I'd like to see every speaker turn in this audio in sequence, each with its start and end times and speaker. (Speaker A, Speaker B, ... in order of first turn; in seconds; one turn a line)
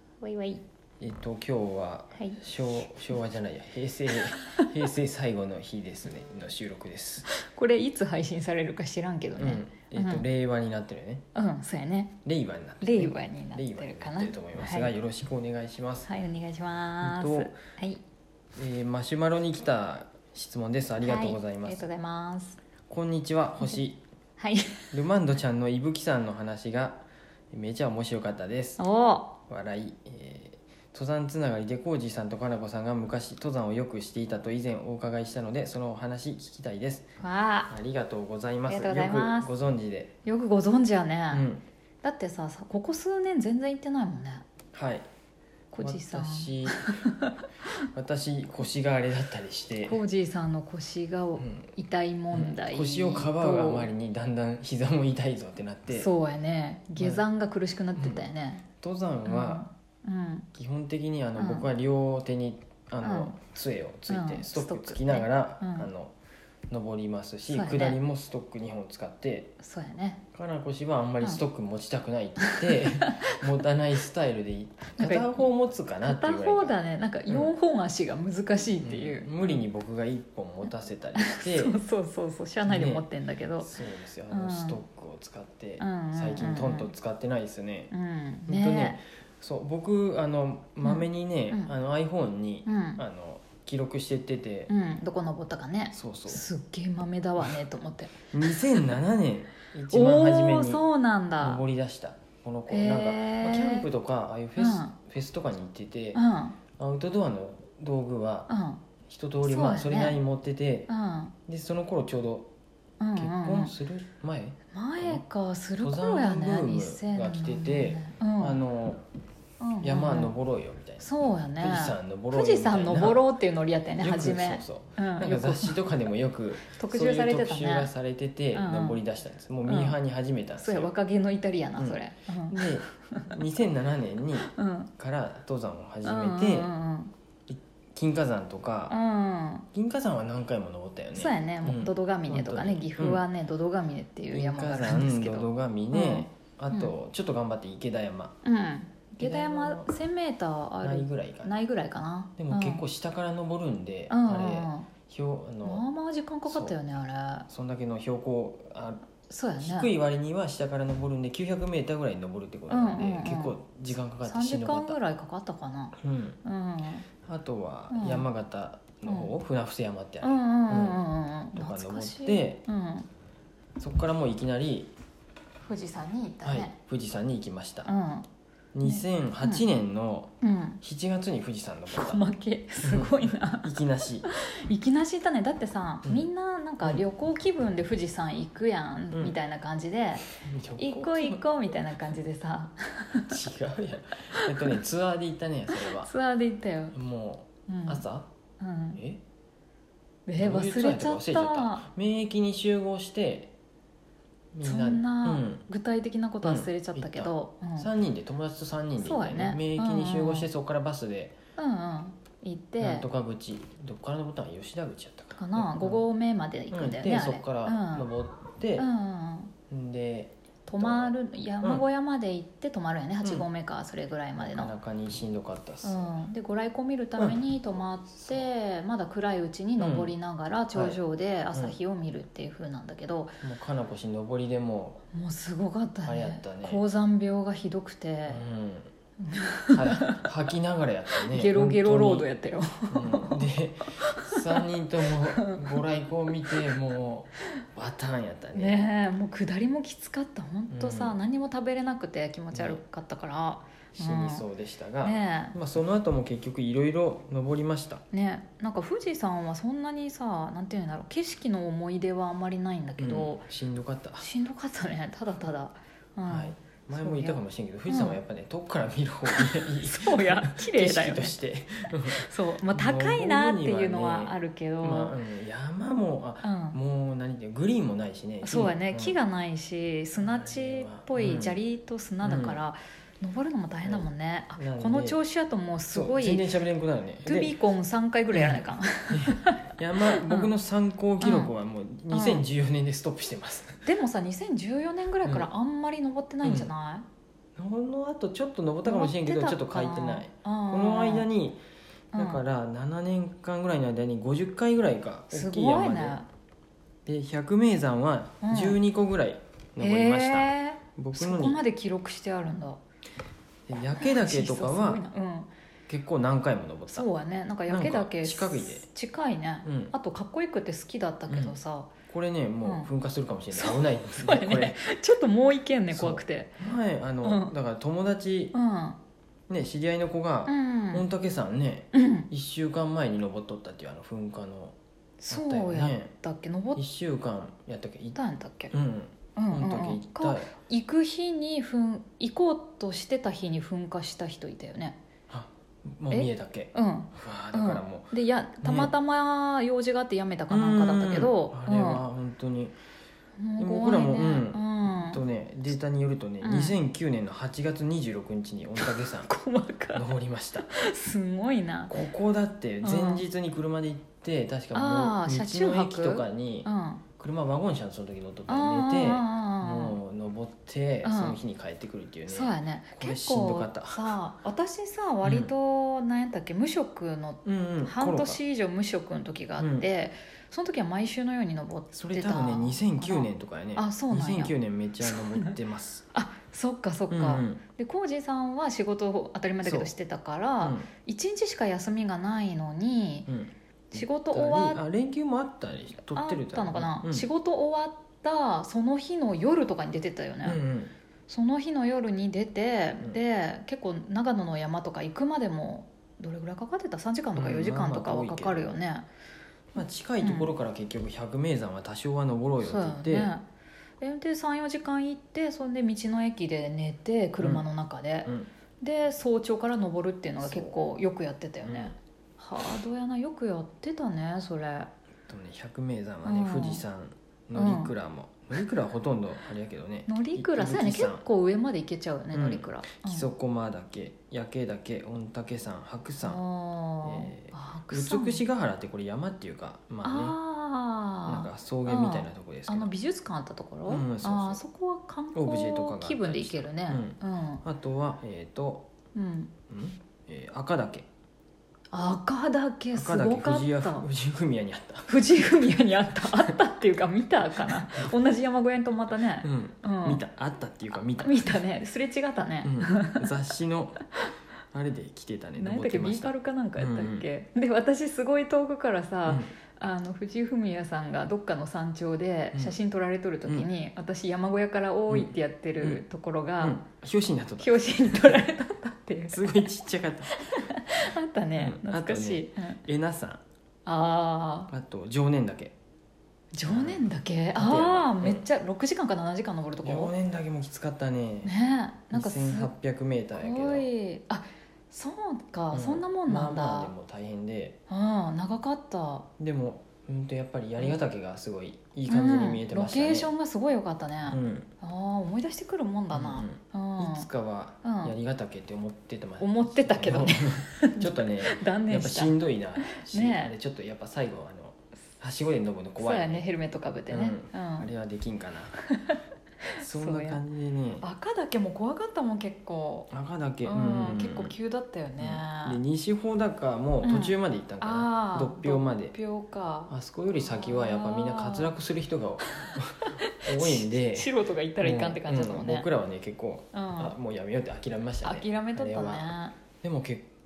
Speaker A: 0.2-0.6
Speaker B: 1.0-7.3
Speaker A: 7.3-10.2
Speaker B: 9.4-11.2
Speaker A: 11.3-12.2
Speaker B: 12.2-16.1
Speaker A: 12.8-14.9
Speaker A: 16.1-18.0
Speaker B: 17.0-17.6
Speaker B: 18.6-21.9
Speaker A: 21.0-22.6
Speaker B: 22.9-24.0
Speaker A: 24.4-24.9
Speaker B: 24.9-28.8
Speaker A: 28.8-29.4
Speaker B: 29.5-37.0
Speaker A: 37.2-37.7
Speaker B: 37.7-40.1
Speaker A: 38.7-39.5
Speaker A: 40.2-41.5
Speaker B: 41.3-41.6
Speaker A: 42.0-44.5
Speaker B: 44.7-45.0
Speaker A: 45.7-47.4
Speaker B: 45.8-47.0
Speaker B: 47.9-50.0
Speaker A: 49.9-53.9
Speaker B: 51.4-51.7
Speaker B: 52.3-56.1
Speaker A: 55.9-58.6
Speaker B: 57.0-57.2
Speaker B: 58.0-58.3
Speaker B: 58.8-59.7
Speaker A: 59.3-60.5
Speaker B: 60.5-66.1
Speaker A: 61.4-61.7
Speaker A: 63.0-63.4
Speaker A: 64.1-65.9
Speaker B: 66.7-69.6
Speaker A: 67.5-68.0
Speaker A: 69.6-70.2
Speaker B: 70.3-77.5
Speaker A: 72.4-73.3
Speaker A: 75.0-75.5
Speaker A: 76.0-79.6
Speaker B: 78.8-81.8
Speaker A: 81.2-83.7
Speaker B: 82.7-83.1
Speaker B: 83.6-87.9
Speaker A: 84.3-84.8
Speaker A: 85.8-86.9
Speaker A: 87.9-89.0
Speaker B: 88.5-94.7
Speaker A: 90.8-91.7
Speaker A: 92.7-93.0
Speaker A: 94.7-98.9
Speaker B: 95.9-96.4
Speaker B: 98.3-100.9
Speaker A: 99.9-101.6
Speaker B: 101.4-106.2
Speaker A: 102.7-103.9
Speaker A: 104.6-105.0
Speaker A: 106.1-106.6
Speaker B: 106.8-108.5
Speaker A: 108.5-108.8
Speaker B: 109.1-110.9
Speaker A: 109.5-110.2
Speaker A: 110.9-111.3
Speaker B: 111.5-112.5
Speaker A: 113.0-113.7
Speaker B: 113.2-115.2
Speaker A: 114.7-118.6
Speaker B: 115.8-119.0
Speaker A: 119.6-120.3
Speaker B: 119.8-123.3
Speaker A: 121.0-125.8
Speaker B: 124.0-130.9
Speaker A: 126.7-127.9
Speaker A: 128.5-129.0
Speaker A: 129.7-130.0
Speaker A: 130.6-133.3
Speaker B: 131.8-136.7
Speaker A: 134.5-134.9
Speaker A: 136.0-137.1
Speaker B: 137.5-138.9
Speaker A: 138.9-139.7
Speaker B: 139.7-143.2
Speaker A: 141.2-146.9
Speaker B: 144.3-148.3
Speaker A: 148.4-152.8
Speaker B: 149.2-149.9
Speaker B: 150.8-151.5
Speaker B: 152.4-155.8
Speaker A: 154.1-154.9
Speaker A: 155.7-157.5
Speaker B: 156.5-156.8
Speaker B: 157.5-159.1
Speaker A: 159.3-159.9
Speaker B: 159.6-165.0
Speaker A: 162.7-163.6
Speaker A: 164.2-167.1
Speaker B: 166.0-166.4
Speaker B: 167.2-172.7
Speaker A: 167.9-168.3
Speaker A: 170.2-173.1
Speaker B: 173.8-174.9
Speaker A: 175.6-176.7
Speaker B: 176.4-177.9
Speaker A: 177.9-178.3
Speaker B: 178.7-182.2
Speaker A: 178.8-179.7
Speaker A: 180.4-180.8
Speaker A: 181.9-183.8
Speaker B: 182.8-184.3
Speaker A: 184.3-190.3
Speaker B: 190.4-191.7
Speaker A: 190.8-193.4
Speaker B: 193.3-196.1
Speaker A: 194.3-194.8
Speaker A: 195.7-197.0
Speaker B: 196.9-198.3
Speaker A: 197.7-198.0
Speaker A: 198.6-199.0
Speaker B: 199.0-199.2
Speaker A: 200.3-201.9
Speaker B: 200.4-203.5
Speaker B: 204.5-205.6
Speaker A: 204.6-207.9
Speaker B: 206.4-211.4
Speaker A: 209.0-210.5
Speaker A: 211.6-213.0
Speaker B: 212.8-216.1
Speaker A: 215.4-218.1
Speaker B: 216.7-218.9
Speaker A: 218.8-219.5
Speaker B: 219.7-221.8
Speaker A: 220.7-224.7
Speaker B: 224.4-226.2
Speaker A: 225.8-233.4
Speaker B: 227.2-227.4
Speaker B: 228.1-228.5
Speaker B: 229.8-230.1
Speaker B: 230.8-231.0
Speaker B: 233.4-235.0
Speaker A: 235.1-238.4
Speaker B: 236.0-236.8
Speaker B: 238.3-238.9
Speaker A: 239.2-240.2
Speaker B: 239.7-242.3
Speaker A: 241.2-245.8
Speaker B: 242.9-248.9
Speaker A: 246.5-246.8
Speaker A: 248.6-254.5
Speaker B: 250.7-251.2
Speaker B: 252.5-252.8
Speaker B: 253.9-258.0
Speaker A: 255.0-255.6
Speaker A: 258.1-263.4
Speaker B: 263.0-264.3
Speaker A: 264.2-268.2
Speaker B: 266.3-279.2
Speaker A: 269.3-271.4
Speaker A: 272.1-275.2
Speaker A: 276.4-276.8
Speaker A: 278.4-286.5
Speaker B: 280.2-281.6
Speaker B: 282.2-282.6
Speaker B: 283.8-285.2
Speaker B: 285.9-287.6
Speaker A: 287.3-290.5
Speaker B: 288.3-293.9
Speaker A: 291.2-291.5
Speaker A: 292.1-292.4
Speaker A: 293.9-297.1
Speaker B: 296.4-296.7
Speaker B: 297.6-301.6
Speaker A: 298.9-301.3
Speaker A: 302.1-302.4
Speaker B: 302.1-306.2
Speaker A: 305.3-306.3
Speaker B: 307.1-311.6
Speaker A: 308.4-308.8
Speaker A: 309.8-312.8
Speaker B: 313.7-315.0
Speaker A: 314.0-315.5
Speaker B: 315.9-317.1
Speaker A: 316.9-321.9
Speaker B: 317.7-318.9
Speaker B: 319.6-319.9
Speaker B: 321.3-321.6
Speaker B: 322.1-324.8
Speaker A: 322.6-322.9
Speaker A: 323.5-326.6
Speaker B: 325.9-328.5
Speaker A: 327.2-327.5
Speaker A: 328.5-329.0
Speaker B: 329.5-334.8
Speaker A: 330.5-331.1
Speaker A: 331.9-332.3
Speaker A: 335.2-336.8
Speaker B: 335.3-336.1
Speaker B: 336.8-338.2
Speaker A: 338.1-338.7
Speaker B: 338.7-340.5
Speaker A: 339.4-345.0
Speaker B: 345.3-348.9
Speaker A: 346.1-352.0
Speaker B: 350.5-352.8
Speaker A: 353.4-355.2
Speaker B: 353.6-359.3
Speaker A: 356.4-356.8
Speaker A: 358.8-360.1
Speaker B: 359.9-360.7
Speaker A: 360.7-361.9
Speaker B: 361.9-374.2
Speaker A: 362.8-363.2
Speaker A: 364.7-367.0
Speaker A: 368.5-370.0
Speaker A: 371.0-371.4
Speaker A: 372.3-385.6
Speaker B: 375.2-375.5
Speaker B: 377.4-378.4
Speaker B: 379.6-379.9
Speaker B: 381.9-386.1
Speaker A: 386.1-393.3
Speaker B: 387.1-387.6
Speaker B: 389.6-389.9
Speaker B: 390.6-390.9
Speaker B: 393.3-397.3
Speaker A: 393.9-394.8
Speaker A: 396.1-400.6
Speaker B: 400.4-400.9
Speaker A: 401.3-409.1
Speaker B: 407.4-408.7
Speaker B: 409.8-413.3
Speaker A: 410.2-410.5
Speaker A: 412.6-413.4
Speaker A: 414.0-424.9
Speaker B: 420.4-420.8
Speaker B: 421.6-421.9
Speaker B: 425.3-431.2
Speaker A: 426.2-426.8
Speaker A: 427.6-427.9
Speaker A: 430.1-433.3
Speaker B: 432.3-436.4
Speaker A: 436.2-438.4
Speaker B: 437.0-440.4
Speaker A: 440.0-447.6
Speaker B: 441.2-442.9
Speaker B: 443.9-444.6
Speaker B: 445.3-448.9
Speaker A: 449.1-449.5
Speaker B: 449.7-451.1
Speaker A: 451.9-454.1
Speaker B: 452.9-455.4
Speaker A: 455.1-460.2
Speaker B: 457.7-458.1
Speaker B: 459.4-461.6
Speaker A: 461.2-463.3
Speaker B: 462.6-464.1
Speaker B: 464.7-467.3
Speaker A: 465.6-476.8
Speaker B: 469.3-469.5
Speaker B: 475.1-476.0
Speaker B: 476.6-478.5
Speaker A: 477.6-479.6
Speaker B: 479.3-480.3
Speaker A: 480.3-482.8
Speaker B: 481.6-483.4
Speaker A: 483.9-484.7
Speaker B: 484.7-485.7
Speaker A: 486.5-490.1
Speaker B: 486.7-488.4
Speaker B: 489.8-491.5
Speaker A: 491.4-492.7
Speaker B: 492.1-493.9
Speaker A: 493.4-496.9
Speaker B: 495.7-497.8
Speaker A: 497.9-499.3
Speaker B: 499.4-503.3
Speaker A: 502.1-507.3
Speaker B: 504.3-504.7
Speaker B: 506.1-516.5
Speaker A: 507.8-508.1
Speaker A: 509.4-513.5
Speaker A: 516.0-517.9
Speaker B: 517.1-518.8
Speaker A: 519.0-520.4
Speaker B: 519.8-521.0
Speaker A: 521.0-523.1
Speaker B: 523.1-524.5
Speaker A: 523.6-525.8
Speaker B: 525.2-529.2
Speaker A: 527.0-531.7
Speaker B: 529.9-534.3
Speaker A: 532.5-535.9
Speaker B: 534.8-539.3
Speaker A: 536.7-537.2
Speaker A: 538.2-539.6
Speaker B: 539.8-540.3